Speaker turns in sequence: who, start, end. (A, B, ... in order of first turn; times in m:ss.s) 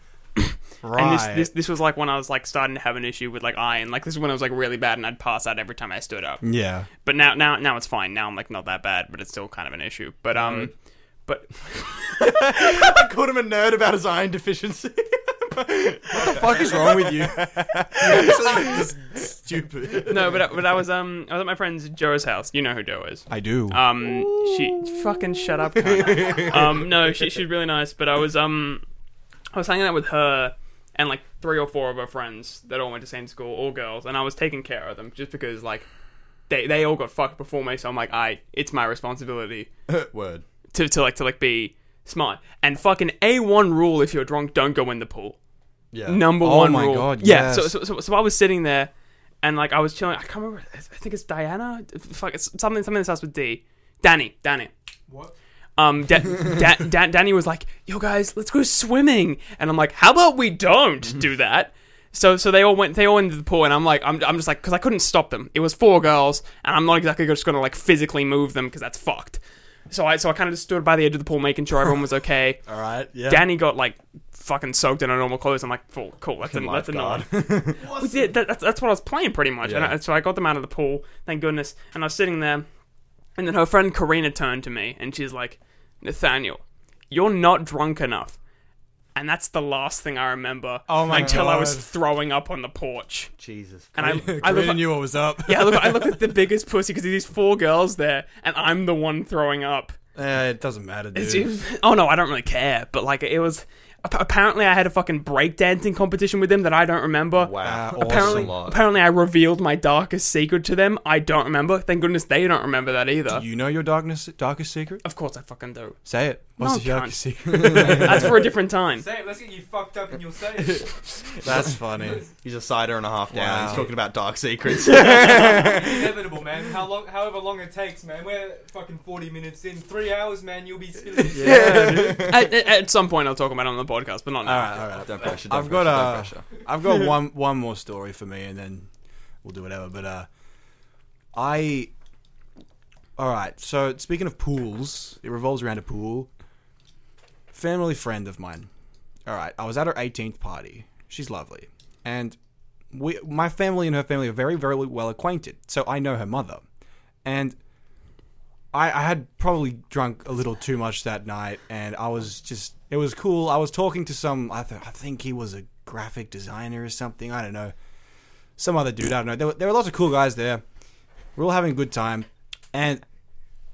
0:00.4-0:06.4 A
0:00.8-0:01.5 B
0:06.4-0:06.9 B
0:07.0-0:10.7 A
0:10.4-0:10.7 C
0:11.2-0:12.9 A
0:12.2-0:18.9 C
0:16.1-0:20.1 B
0:20.1-0:28.8 A
0:23.3-0:24.4 B
0:25.9-0:26.6 C
0:29.5-0:35.9 A
0:36.5-0:39.7 A
0:39.9-0:40.4 C
0:40.7-0:45.4 A
0:45.9-0:46.3 C
0:46.0-0:48.9 A
0:46.4-0:47.7 B
0:49.4-0:54.7 A
0:55.1-0:55.3 D
0:55.8-1:12.6 A
1:12.6-1:13.4 B
1:13.2-1:22.6 A
1:16.4-1:17.8 C
1:17.8-1:18.3 D
1:19.6-1:19.9 C
1:23.4-1:28.4 A
1:29.1-1:33.3 A
1:30.9-1:31.9 B
1:33.4-1:34.3 C
1:33.9-1:40.0 A
1:34.0-1:36.2 B
1:40.1-1:41.5 B
1:41.1-1:53.4 A
1:47.3-1:48.8 C
1:47.6-1:48.5 B
1:53.3-1:55.0 B
1:55.0-1:56.0 A
1:56.0-1:58.4 B
1:56.6-1:59.0 A
1:57.6-1:58.0 C
1:59.0-2:02.3 D
2:01.2-2:01.8 C
2:01.4-2:02.2 B
2:02.4-2:06.1 C
2:03.3-2:03.9 B
2:05.1-2:11.7 D
2:11.3-2:12.4 B
2:11.3-2:12.4 C
2:11.9-2:15.1 A
2:14.4-2:18.9 B
2:15.0-2:16.6 C
2:19.4-2:20.3 B
2:21.3-2:21.9 B
2:23.2-2:26.3 B
2:27.5-2:28.7 B
2:29.2-2:32.4 B
2:32.9-2:36.6 B
2:37.2-2:37.6 B
2:38.7-2:47.7 B
2:48.6-2:50.6 B
2:51.4-2:53.0 B